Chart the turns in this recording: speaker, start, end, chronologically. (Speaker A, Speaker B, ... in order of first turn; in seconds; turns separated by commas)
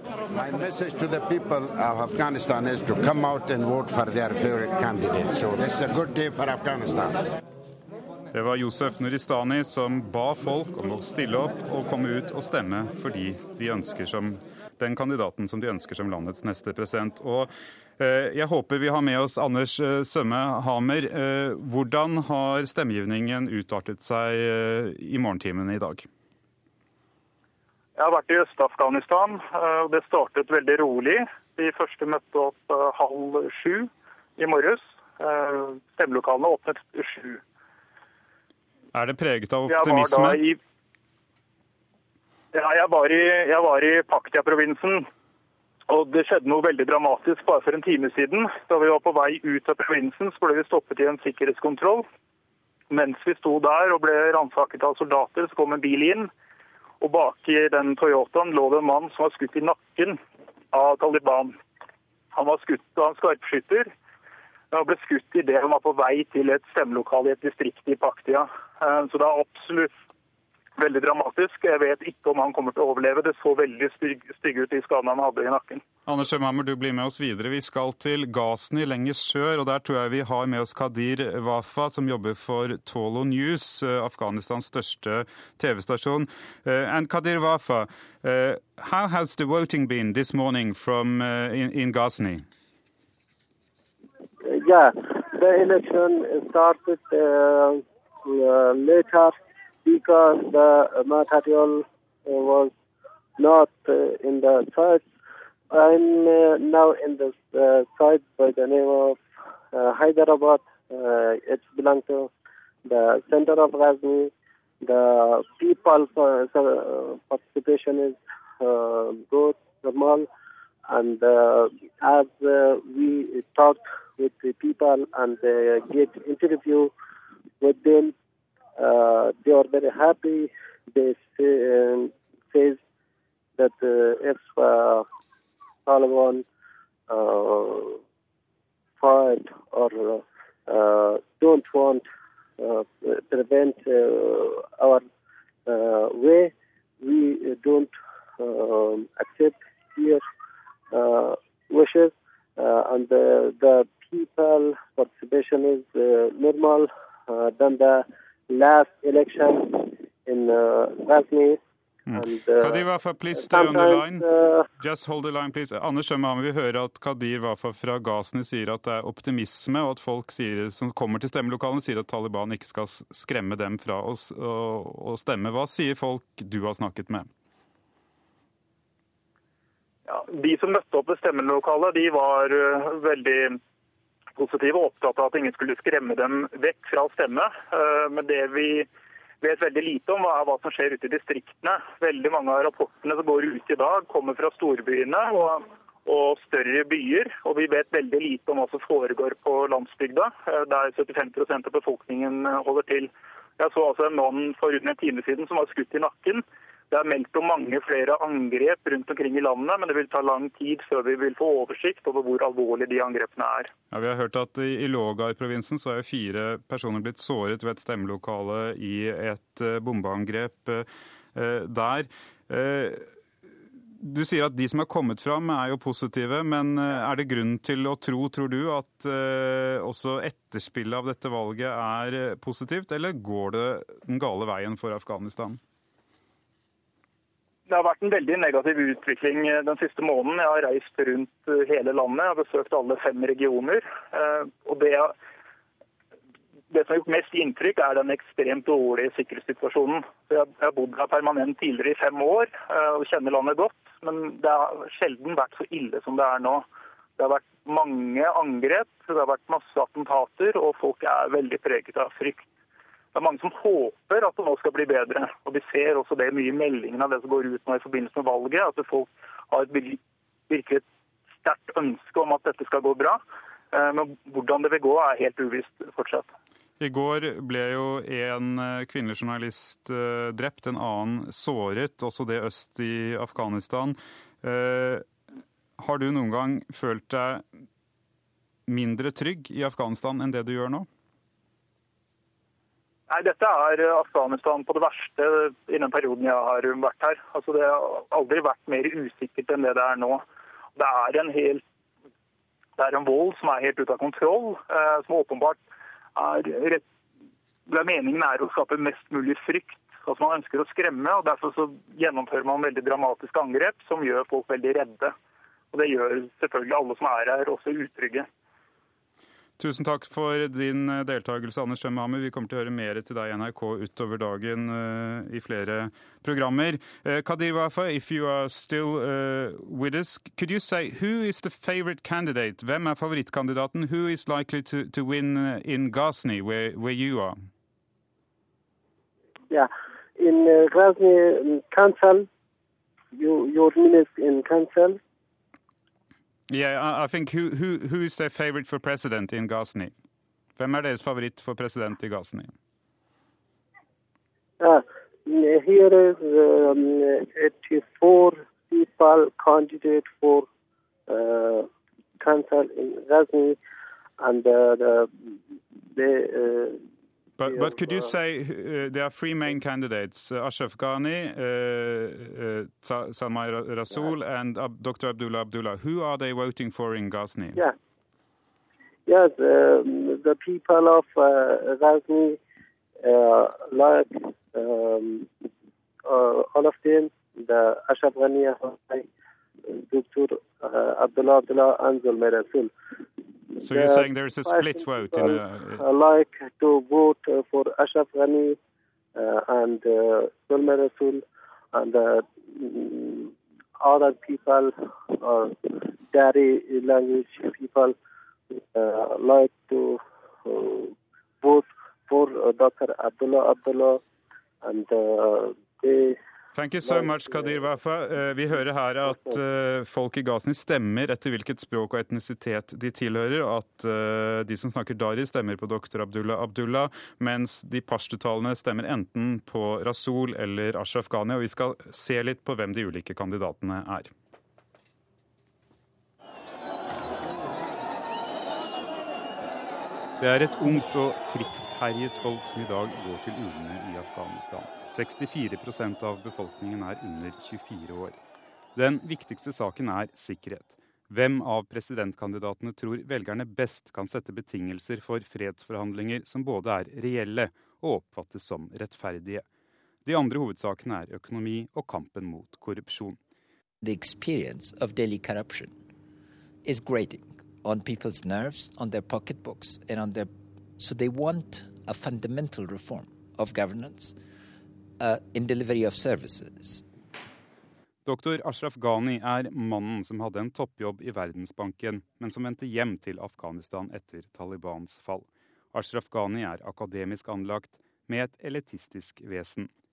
Speaker A: 0.3-7.2, Speaker B: 8.3-26.1, Speaker C: 28.0-37.4, Speaker B: 38.9-40.4, Speaker C: 39.7-40.6, Speaker C: 42.5-45.1, Speaker C: 45.9-52.1, Speaker C: 52.9-56.3, Speaker C: 57.0-60.2, Speaker C: 60.7-61.6, Speaker C: 62.3-63.9, Speaker C: 64.7-69.9, Speaker C: 70.8-75.8, Speaker B: 76.1-92.5, Speaker D: 94.5-102.7, Speaker D: 103.4-105.0, Speaker D: 105.7-109.2, Speaker D: 109.7-112.3, Speaker D: 112.8-114.3, Speaker D: 114.8-120.3, Speaker D: 120.9-126.9, Speaker D: 127.6-128.1, Speaker D: 128.8-132.8, Speaker D: 133.6-135.1, Speaker D: 135.9-136.4, Speaker D: 137.1-138.0, Speaker D: 139.0-142.1, Speaker D: 142.6-145.1, Speaker D: 145.7-150.2, Speaker D: 150.9-161.6, Speaker B: 162.1-164.2, Speaker D: 162.1-164.7, Speaker B: 164.8-177.3, Speaker C: 180.1-183.6, Speaker C: 184.4-188.9, Speaker C: 189.4-213.7, Speaker B: 213.9-223.1, Speaker B: 224.0-235.6, Speaker C: 237.7-245.1, Speaker C: 246.7-256.7, Speaker C: 257.2-262.4, Speaker C: 263.1-270.8, Speaker C: 271.4-273.2, Speaker C: 273.7-276.3, Speaker B: 276.8-285.1, Speaker B: 285.8-287.5, Speaker B: 288.7-290.9, Speaker C: 293.1-300.2, Speaker C: 300.8-301.6, Speaker C: 302.8-305.6, Speaker C: 306.2-306.8, Speaker C: 307.7-315.1, Speaker C: 315.7-318.3, Speaker B: 319.6-337.4, Speaker D: 339.5-342.3, Speaker D: 343.1-345.0, Speaker B: 346.5-349.9, Speaker B: 350.6-352.5, Speaker D: 354.6-360.5, Speaker D: 361.1-361.7, Speaker D: 362.2-363.6, Speaker D: 364.2-365.3, Speaker D: 365.9-366.8, Speaker B: 367.4-377.6, Speaker D: 367.4-368.1, Speaker D: 379.1-382.4, Speaker D: 383.0-385.3, Speaker D: 386.1-389.1, Speaker D: 389.7-392.7, Speaker D: 393.6-398.6, Speaker B: 393.6-395.8, Speaker D: 399.2-407.9, Speaker D: 408.5-414.0, Speaker D: 414.6-416.2, Speaker B: 416.6-434.1, Speaker D: 416.8-417.7, Speaker D: 419.1-419.4, Speaker B: 440.2-448.2, Speaker B: 448.8-459.4, Speaker B: 460.1-463.2, Speaker E: 463.8-465.7, Speaker E: 466.6-474.1, Speaker E: 475.0-476.8, Speaker B: 478.1-489.7